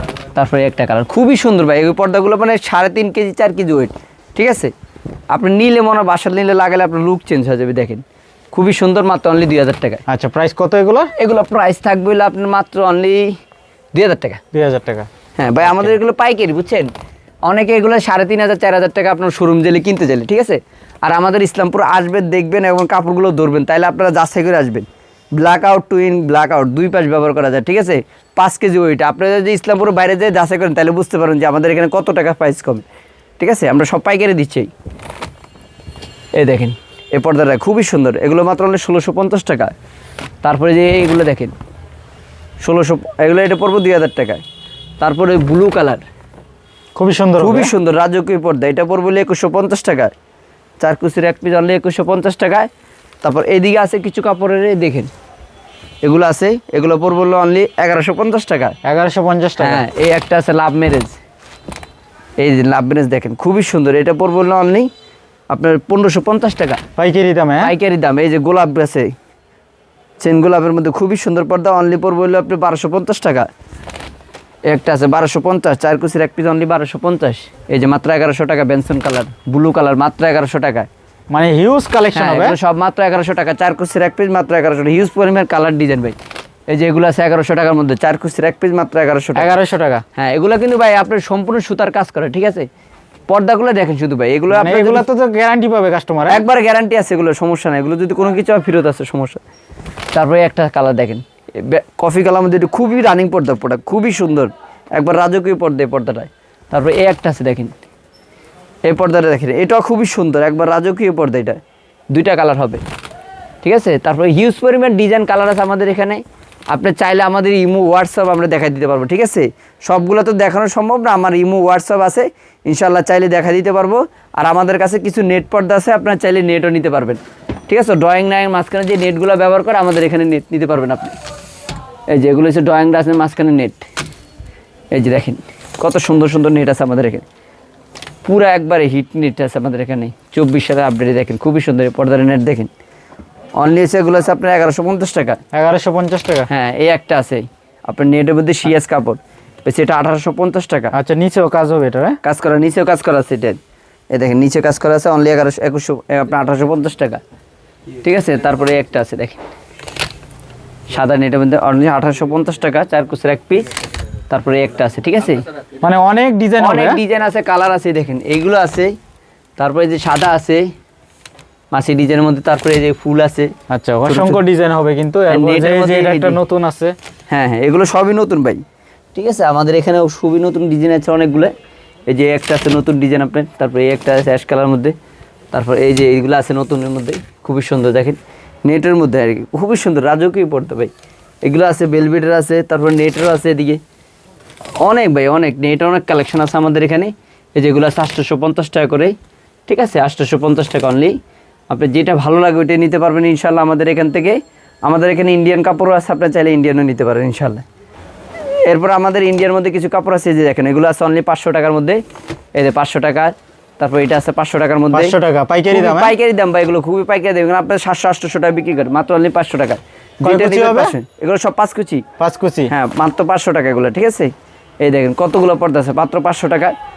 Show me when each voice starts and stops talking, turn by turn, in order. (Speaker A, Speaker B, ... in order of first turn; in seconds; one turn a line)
Speaker A: 0.3-4.7
Speaker A: 5.3-10.0
Speaker B: 10.1-11.1
Speaker A: 11.2-13.4
Speaker A: 13.9-14.4
Speaker B: 14.5-15.1
Speaker A: 15.4-16.9
Speaker B: 15.7-15.9
Speaker A: 17.5-32.9
Speaker A: 33.4-34.7
Speaker A: 36.4-39.7
Speaker A: 40.4-41.5
Speaker A: 42.6-44.4
Speaker A: 45.0-46.1
Speaker B: 47.0-47.7
Speaker A: 47.4-50.1
Speaker A: 50.8-52.7
Speaker A: 53.2-55.1
Speaker A: 56.0-58.8
Speaker B: 58.8-59.8
Speaker A: 59.6-61.2
Speaker A: 62.4-64.9
Speaker A: 65.5-66.8
Speaker B: 67.0-67.7
Speaker A: 67.6-69.1
Speaker A: 70.2-73.5
Speaker A: 74.7-80.9
Speaker B: 81.3-82.6
Speaker A: 82.1-89.5
Speaker B: 89.4-90.0
Speaker A: 90.2-92.7
Speaker A: 93.3-95.1
Speaker B: 94.5-96.4
Speaker A: 96.3-99.4
Speaker A: 100.1-107.7
Speaker A: 108.9-111.6
Speaker A: 112.1-112.8
Speaker A: 113.6-131.2
Speaker A: 132.1-133.9
Speaker A: 134.9-137.2
Speaker A: 138.3-142.7
Speaker A: 143.6-145.4
Speaker B: 145.5-146.5
Speaker A: 146.5-150.9
Speaker B: 150.9-152.2
Speaker A: 152.2-153.6
Speaker A: 154.1-157.2
Speaker A: 158.0-159.4
Speaker A: 160.9-163.7
Speaker A: 164.3-165.4
Speaker B: 165.8-167.0
Speaker A: 166.6-168.9
Speaker A: 169.6-170.7
Speaker A: 171.7-173.5
Speaker B: 173.7-176.9
Speaker A: 174.1-174.4
Speaker A: 175.3-176.4
Speaker A: 177.3-178.6
Speaker A: 179.2-181.5
Speaker A: 182.1-185.0
Speaker A: 185.5-190.9
Speaker A: 191.4-193.8
Speaker A: 194.8-199.2
Speaker A: 199.7-201.2
Speaker A: 201.7-207.6
Speaker A: 208.7-212.0
Speaker A: 212.6-215.2
Speaker B: 214.9-216.1
Speaker A: 215.7-222.0
Speaker B: 220.2-220.9
Speaker B: 222.2-222.7
Speaker A: 222.7-226.7